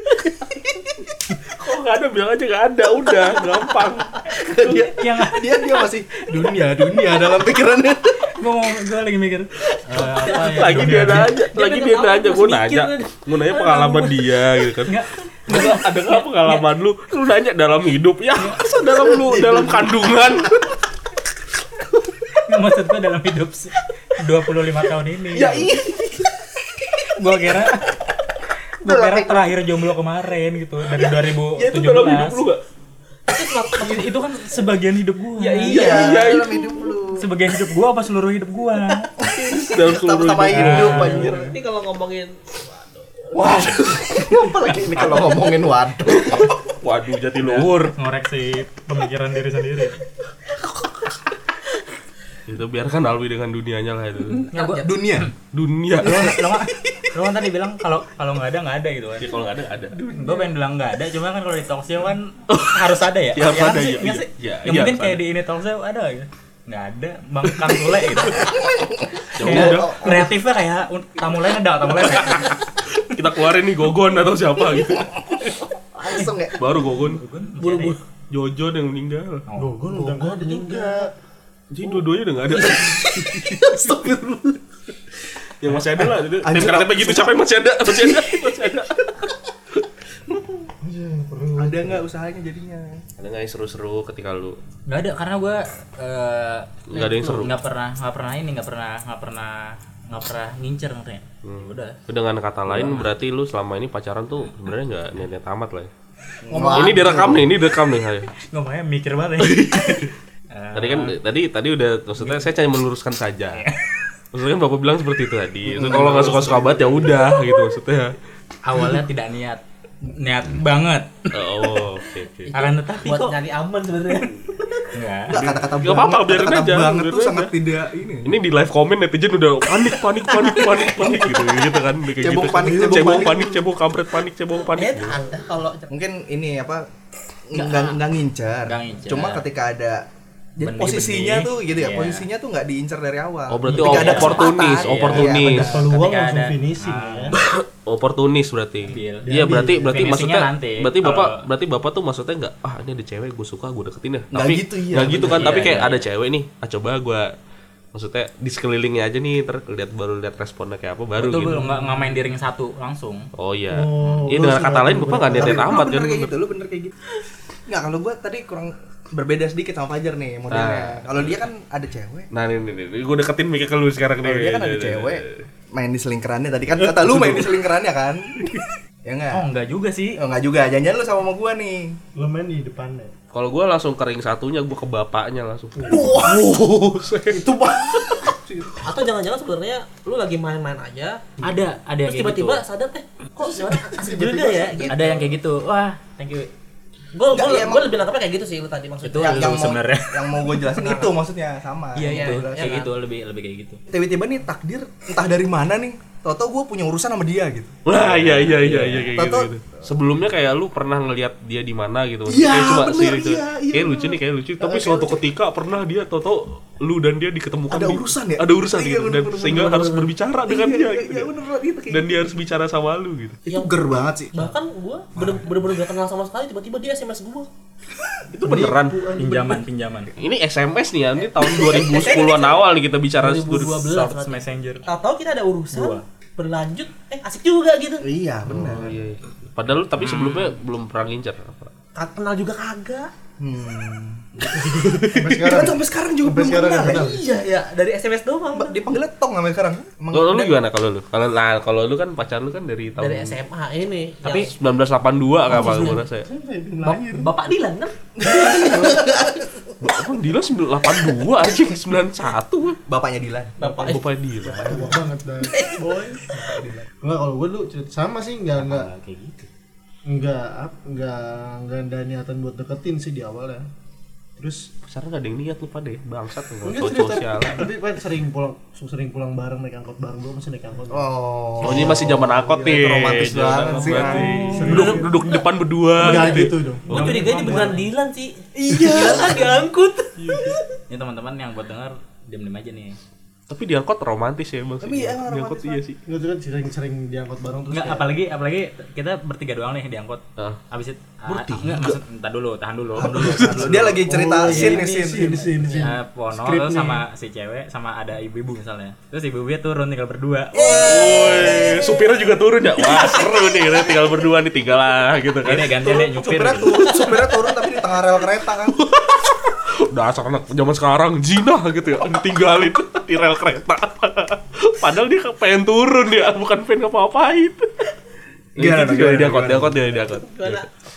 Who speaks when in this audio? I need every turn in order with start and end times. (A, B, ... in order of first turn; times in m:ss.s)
0:01.5-0:04.3 A
0:04.3-0:08.3 B
0:04.6-0:05.9 C
0:08.3-0:11.3 C
0:10.0-0:14.2 D
0:10.2-0:14.9 A
0:14.8-0:16.7 C
0:15.5-0:20.7 A
0:19.1-0:19.9 B
0:22.4-0:25.7 C
0:25.3-0:25.9 A
0:25.4-0:26.3 B
0:27.1-0:27.9 C
0:28.8-0:32.4 C
0:28.8-0:29.5 B
0:30.9-0:32.6 A
0:33.3-0:34.1 D
0:33.8-0:36.1 C
0:35.4-0:36.3 D
0:35.6-0:37.3 B
0:35.7-0:36.8 A
0:37.1-0:39.1 C
0:39.2-0:41.6 B
0:39.2-0:41.5 A
0:40.5-0:41.4 C
0:40.8-0:43.3 D
0:43.3-0:46.3 B
0:46.0-0:47.9 A
0:47.4-0:50.0 C
0:52.5-0:54.5 A
0:54.5-0:55.3 C
0:54.5-0:54.8 D
0:54.8-0:55.3 B
0:55.5-0:56.4 A
0:56.0-0:59.4 C
0:59.2-1:00.0 A
1:00.0-1:08.6 C
1:02.5-1:05.2 A
1:08.4-1:10.3 B
1:09.3-1:12.6 C
1:09.3-1:10.2 A
1:12.0-1:15.2 A
1:15.9-1:16.6 B
1:16.6-1:17.2 A
1:17.0-1:18.0 C
1:17.6-1:17.9 D
1:18.3-1:19.4 A
1:19.5-1:19.9 C
1:19.6-1:21.1 E
1:20.3-1:21.1 D
1:21.7-1:24.2 A
1:22.8-1:24.3 B
1:25.6-1:29.1 A
1:26.4-1:27.4 B
1:27.9-1:28.4 B
1:30.8-1:32.0 E
1:31.5-1:33.0 B
1:33.2-1:34.6 A
1:34.9-1:42.0 C
1:36.9-1:37.5 A
1:41.4-1:45.9 A
1:42.7-1:43.1 C
1:46.5-1:47.1 C
1:46.5-1:47.5 B
1:46.7-1:48.3 A
1:48.4-1:51.2 C
1:49.4-1:50.1 A
1:50.7-1:53.6 A
1:52.2-1:52.5 C
1:53.5-1:53.8 C
1:54.3-1:58.1 A
1:55.7-1:57.2 B
1:58.6-2:01.8 C
2:01.3-2:02.5 A
2:02.5-2:03.4 C
2:02.5-2:04.9 D
2:04.9-2:05.4 C
2:05.3-2:08.4 B
2:05.3-2:07.5 A
2:08.2-2:15.2 A
2:12.2-2:13.6 B
2:14.7-2:15.9 D
2:15.9-2:16.9 B
2:17.5-2:20.0 B
2:17.5-2:18.0 C
2:18.6-2:19.4 C
2:20.6-2:24.5 B
2:20.6-2:22.3 C
2:23.5-2:25.7 A
2:23.7-2:24.0 E
2:23.8-2:27.4 C
2:24.1-2:25.1 D
2:25.1-2:25.7 B
2:25.4-2:27.4 E
2:27.3-2:37.3 A
2:28.9-2:29.3 C
2:29.2-2:30.0 E
2:29.9-2:31.4 C
2:34.3-2:35.7 B
2:35.1-2:36.1 C
2:37.9-2:41.6 A
2:41.2-2:43.3 C
2:41.6-2:42.2 E
2:43.3-2:46.3 A
2:43.7-2:45.8 E
2:45.3-2:46.9 B
2:47.7-2:52.3 B
2:50.5-2:51.2 A
2:52.3-2:55.4 A
2:54.2-2:58.3 B
2:57.0-2:57.5 A
2:59.0-2:59.4 B
2:59.3-3:00.2 C
3:00.2-3:02.0 B
3:02.1-3:03.1 E
3:03.3-3:08.3 A
3:05.8-3:06.5 B
3:07.3-3:08.8 B
3:08.8-3:11.2 D
3:11.4-3:12.6 C
3:12.0-3:15.2 D
3:13.6-3:14.9 E
3:14.8-3:16.5 C
3:17.2-3:19.5 D
3:17.3-3:18.0 B
3:19.0-3:20.6 C
3:19.2-3:22.8 B
3:20.8-3:21.1 D
3:22.0-3:23.8 C
3:22.0-3:22.9 D
3:23.9-3:27.8 B
3:27.8-3:41.3 A
3:27.9-3:29.1 C
3:29.1-3:29.5 B
3:32.3-3:34.2 B
3:37.7-3:42.1 B
3:39.6-3:40.1 D
3:41.9-3:43.4 A
3:43.5-3:43.8 D
3:43.5-3:44.4 B
3:44.3-3:47.5 D
3:48.3-3:49.0 A
3:48.4-3:49.6 E
3:49.2-3:50.1 C
3:50.2-3:53.9 A
3:51.4-3:52.6 D
3:53.2-3:58.0 D
3:53.9-3:54.8 C
3:55.7-3:56.0 C
3:58.0-3:58.9 B
3:58.4-4:01.7 A
4:00.0-4:00.5 C
4:02.0-4:03.1 D
4:03.4-4:04.2 B
4:04.4-4:05.3 A
4:05.1-4:07.2 E
4:05.3-4:07.2 B
4:07.0-4:08.8 D
4:08.5-4:10.6 B
4:10.1-4:13.4 A
4:13.0-4:14.5 D
4:14.2-4:16.3 A
4:15.5-4:16.0 D
4:16.3-4:17.3 B
4:16.8-4:19.0 D
4:18.1-4:19.7 B
4:19.8-4:22.8 A
4:22.9-4:24.0 B
4:23.6-4:24.0 D
4:23.8-4:25.0 A
4:24.5-4:24.9 B
4:24.6-4:26.3 E
4:26.3-4:26.9 B
4:27.0-4:28.9 E
4:28.6-4:29.5 C
4:30.0-4:33.6 E
4:34.8-4:37.7 A
4:36.6-4:41.1 E
4:40.9-4:44.7 B
4:41.6-4:42.3 E
4:41.6-4:47.4 A
4:43.8-4:45.0 C
4:44.5-4:45.2 E
4:44.8-4:45.0 D
4:45.9-4:47.8 E
4:46.9-4:50.6 D
4:47.2-4:47.8 C
4:48.5-4:49.5 B
4:50.2-4:50.6 A
4:50.9-4:53.0 C
4:53.5-4:56.0 A
4:54.8-4:55.8 B
4:56.0-4:58.1 E
4:57.7-5:04.8 C
5:01.3-5:02.0 A
5:03.0-5:05.6 B
5:03.0-5:03.9 A
5:04.0-5:07.0 E
5:05.8-5:11.2 C
5:10.6-5:11.8 B
5:10.8-5:15.7 A
5:11.0-5:11.8 D
5:15.4-5:17.0 C
5:15.8-5:18.8 B
5:18.7-5:27.7 A
5:28.6-5:29.9 B
5:28.6-5:30.7 A
5:30.2-5:30.6 D